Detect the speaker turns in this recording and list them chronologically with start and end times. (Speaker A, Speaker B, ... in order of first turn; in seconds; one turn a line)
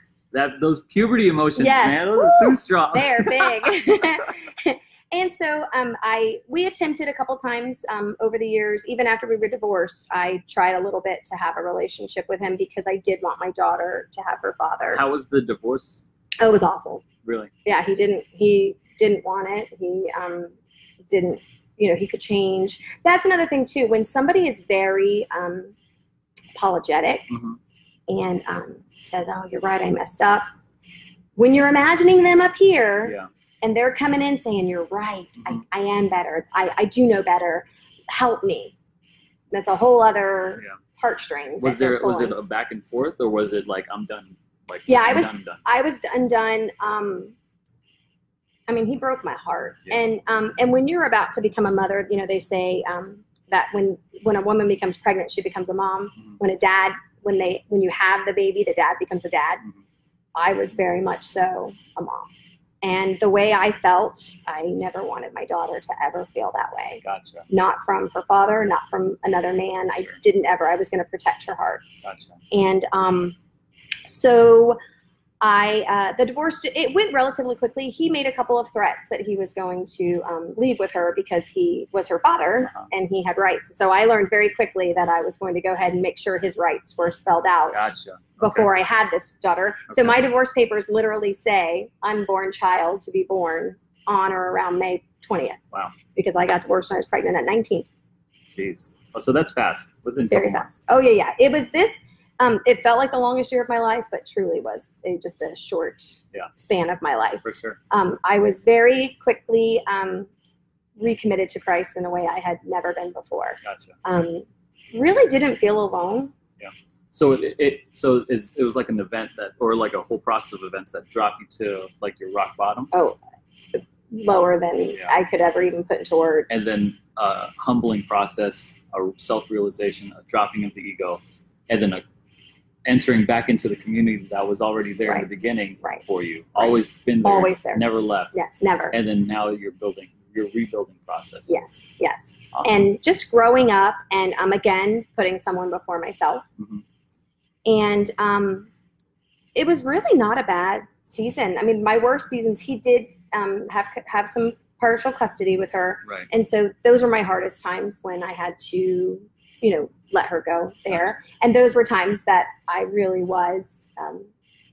Speaker A: 0.3-3.8
Speaker B: 1.6-15.0
Speaker A: 14.9-16.1
Speaker B: 16.4-17.0
Speaker A: 17.2-17.5
Speaker B: 17.6-20.5
Speaker B: 21.1-25.7
Speaker B: 26.5-27.3
Speaker A: 27.3-27.6
Speaker B: 28.1-30.4
Speaker B: 31.4-38.7
Speaker B: 39.5-42.4
Speaker A: 41.6-45.6
Speaker B: 44.9-47.3
Speaker B: 48.7-59.6
Speaker B: 60.3-62.3
Speaker B: 62.8-71.8
Speaker A: 67.0-67.5
Speaker A: 72.0-72.4
Speaker B: 72.5-73.3
Speaker B: 74.0-74.8
Speaker B: 75.4-95.6
Speaker A: 82.6-82.9
Speaker A: 87.7-88.7
Speaker A: 89.9-90.2
Speaker B: 96.1-97.8
Speaker A: 98.5-100.8
Speaker B: 100.3-110.3
Speaker A: 107.4-107.8
Speaker B: 111.0-116.3
Speaker A: 113.6-113.9
Speaker A: 116.6-122.9
Speaker B: 122.9-123.2
Speaker B: 123.7-126.6
Speaker A: 126.5-132.0
Speaker A: 132.8-138.4
Speaker B: 136.6-138.9
Speaker A: 138.9-141.5
Speaker B: 141.5-146.4
Speaker A: 142.5-142.8
Speaker B: 147.7-148.7
Speaker B: 149.5-164.3
Speaker A: 160.9-161.2